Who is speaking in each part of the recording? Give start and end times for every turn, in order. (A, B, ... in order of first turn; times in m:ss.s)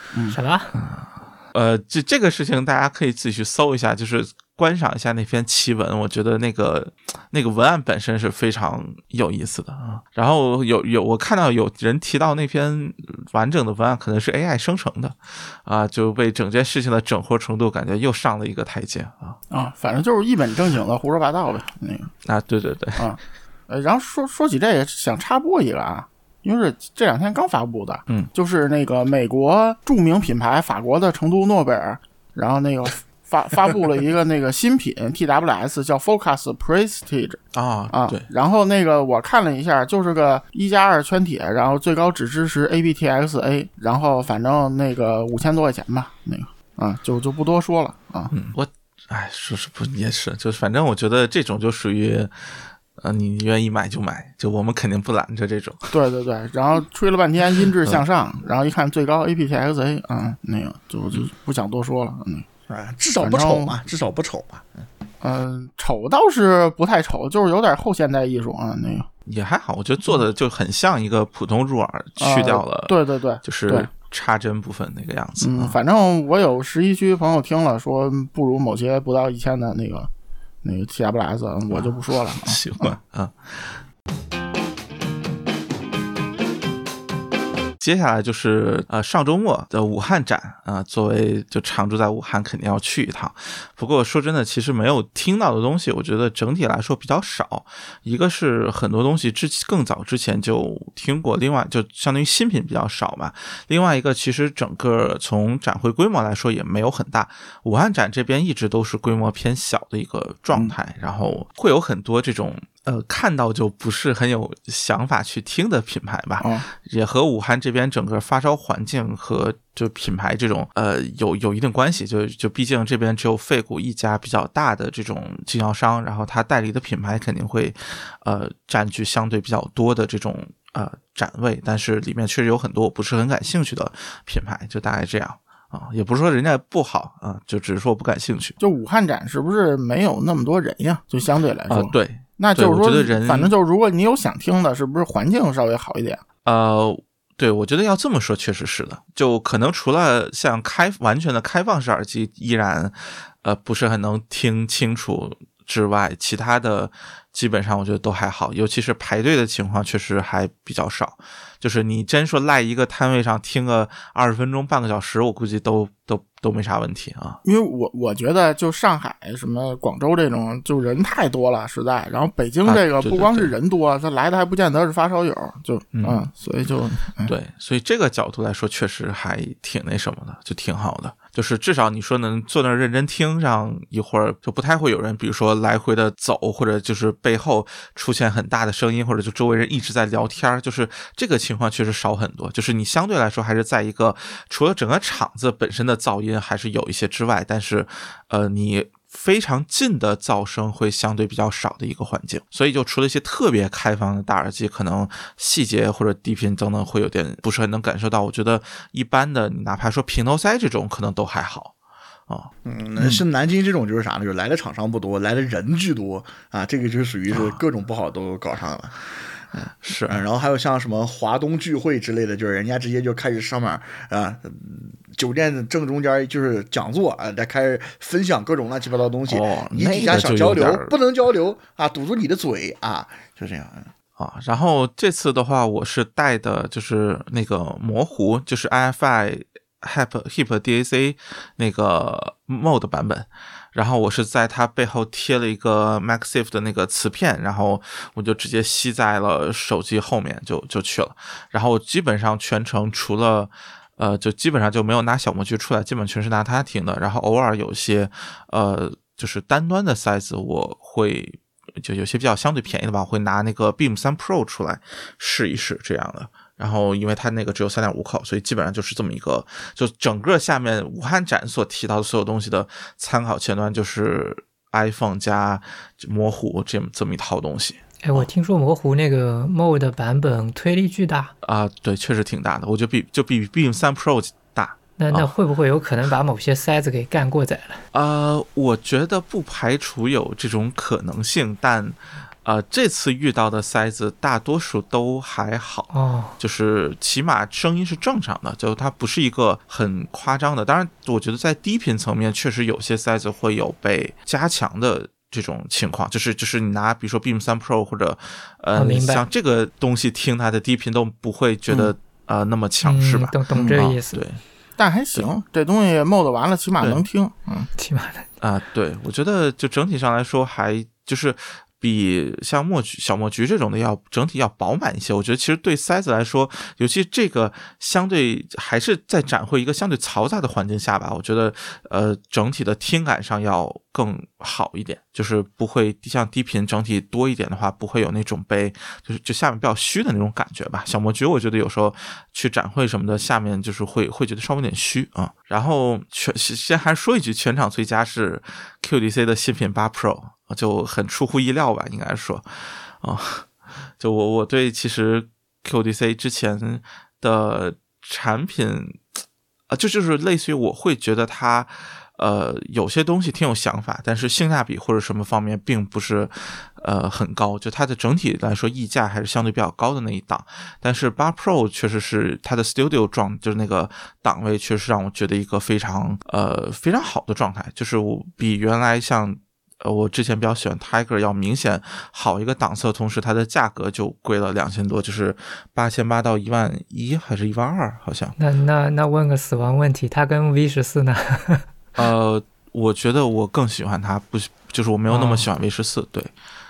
0:00.3-0:00.8 A
0:00.8-0:19.4 B
0:19.5-0:22.1 C
0:22.2-0:23.1 B
0:23.0-0:48.3 C
0:37.5-0:38.3 B
0:48.3-0:55.9 B
0:55.9-1:02.5 C
1:02.7-1:04.9 D
1:03.2-1:03.8 C
1:05.2-1:09.1 C
1:09.3-1:15.8 B
1:12.2-1:13.9 C
1:15.4-1:20.1 C
1:20.6-1:23.0 C
1:21.7-1:23.8 B
1:27.8-2:18.6 B
1:56.4-1:56.7 C
2:18.6-2:26.2 C
2:21.7-2:23.5 B
2:26.4-2:47.4 B
2:47.4-2:57.3 C
2:52.6-2:53.5 B
2:55.9-2:56.2 B
2:57.2-3:31.7 B
3:32.6-3:53.9 D
3:39.8-3:40.2 B
3:49.3-3:51.0 B
3:54.2-4:38.3 B
4:38.0-4:41.3 A
4:41.4-4:45.3 B
4:45.0-4:47.8 A
4:47.9-5:14.4 B
4:55.9-4:56.4 A
5:08.8-5:09.2 A
5:12.8-5:14.2 A
5:13.6-5:13.8 C
5:14.8-5:17.7 C
5:17.8-5:18.3 A
5:18.4-5:59.0 B
5:59.7-6:28.4 B
6:28.4-6:31.7 A
6:32.0-6:36.3 B
6:35.1-6:35.5 A